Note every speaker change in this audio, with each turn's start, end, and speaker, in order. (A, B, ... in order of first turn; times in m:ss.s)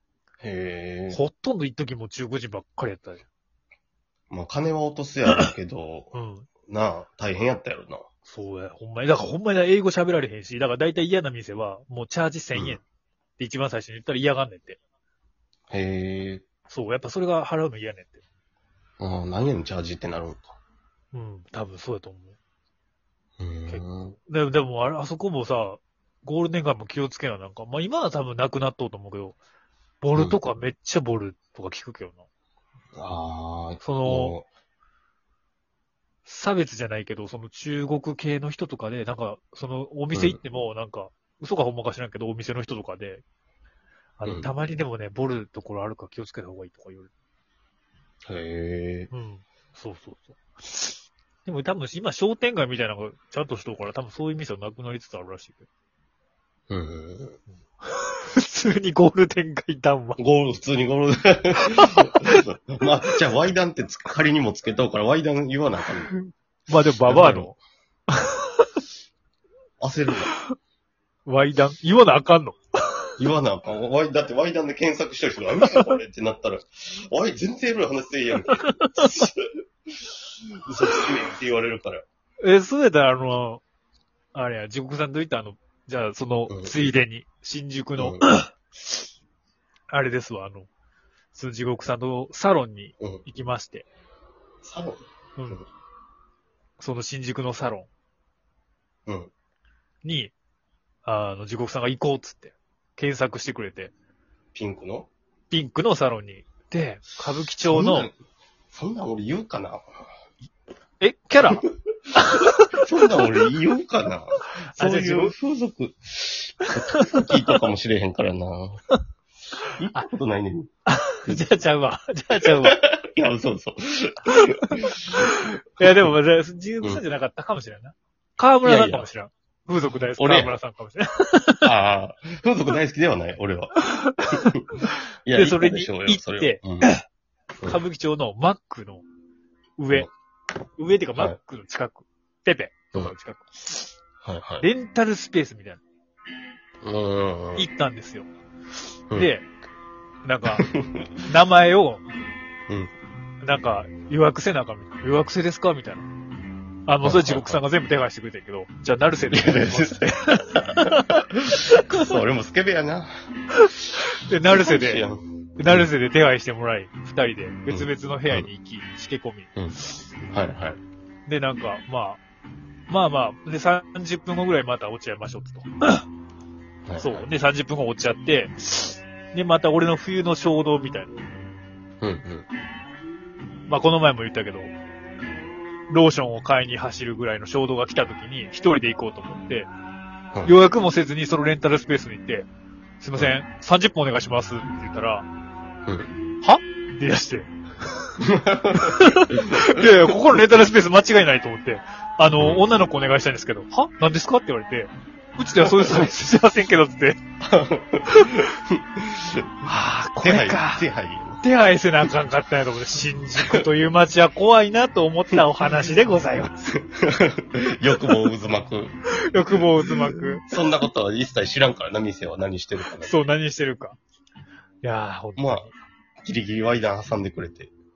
0:00.4-0:01.2 A
0:01.1-0:03.2 B
0:04.3-0:06.1 A
0:06.1-0:06.5 B
0:06.6-0:08.0 A
0:08.3-0:12.8 B
0:13.4-0:14.8 B
0:15.7-0:16.4 A
0:16.7-0:18.2 B
0:19.0-0:20.6 A
0:21.1-0:22.4 B
0:23.4-0:24.2 A
0:23.7-0:29.4 B
0:30.0-0:32.2 B
0:33.0-0:34.5 A
0:33.8-0:34.4 B
0:36.2-0:43.2 B
0:40.1-0:40.4 A
0:44.2-0:47.1 B
0:44.2-0:44.5 A
0:48.2-0:49.1 A
0:49.1-0:55.6 B
0:56.7-0:57.4 A
0:57.8-1:00.2 B
1:00.2-1:06.1 A
1:01.7-1:02.4 B
1:06.1-1:07.6 B
1:07.0-1:07.5 A
1:08.1-1:08.7 B
1:09.8-1:10.3 A
1:11.2-1:13.1 B
1:13.2-1:19.4 A
1:18.7-1:19.1 B
1:20.6-1:22.0 A
1:22.4-1:23.6 B
1:24.3-1:29.0 B
1:26.5-1:26.8 A
1:28.0-1:28.3 A
1:29.9-1:30.7 B
1:31.3-1:33.8 B
1:34.6-1:35.6 A
1:35.4-1:35.6 B
1:36.8-1:37.9 B
1:39.0-1:39.3 A
1:40.0-1:40.3 B
1:41.0-1:43.9 B
1:44.5-1:45.1 A
1:45.5-1:48.1 B
1:47.7-1:48.1 A
1:48.7-1:49.8 A
1:51.0-1:52.7 B
1:52.8-1:58.8 A
1:54.6-1:55.3 B
1:56.6-1:57.0 B
1:59.7-2:00.7 A
2:00.9-2:02.8 B
2:01.2-2:01.5 A
2:02.4-2:06.0 A
2:04.3-2:11.7 B
2:08.6-2:09.1 A
2:10.2-2:10.6 A
2:11.6-2:13.8 A
2:13.9-2:17.0 B
2:15.2-2:16.9 A
2:17.6-2:19.0 B
2:19.8-2:20.1 B
2:20.8-2:23.9 B
2:24.2-2:24.7 A
2:24.6-2:25.8 B
2:26.8-2:27.7 A
2:27.6-2:28.3 B
2:29.1-2:29.5 B
2:30.2-2:30.7 B
2:30.5-2:31.1 A
2:31.2-2:32.0 B
2:33.4-2:36.1 B
2:36.9-2:42.0 B
2:37.0-2:37.6 A
2:39.3-2:43.1 A
2:43.6-2:45.0 B
2:44.1-2:45.9 A
2:45.6-2:50.0 B
2:47.7-2:48.5 A
2:50.3-2:50.8 A
2:51.2-2:52.2 B
2:52.9-2:56.0 B
2:56.8-2:57.3 A
2:57.0-3:01.2 B
3:02.0-3:02.5 A
3:03.7-3:04.7 B
3:05.9-3:09.7 B
3:10.4-3:12.5 B
3:13.0-3:15.2 B
3:15.8-3:16.1 A
3:16.4-3:18.1 B
3:18.2-3:20.2 A
3:18.7-3:27.2 B
3:22.4-3:22.8 A
3:25.6-3:26.1 A
3:27.4-3:29.5 A
3:28.1-3:28.4 B
3:29.6-3:30.8 B
3:30.2-3:31.4 A
3:31.4-3:36.6 B
3:33.4-3:33.7 A
3:36.6-3:38.9 A
3:39.3-3:40.5 B
3:39.5-3:39.9 A
3:40.5-3:43.1 A
3:43.0-3:44.0 B
3:44.8-3:45.7 B
3:45.4-3:45.7 A
3:46.2-3:47.7 A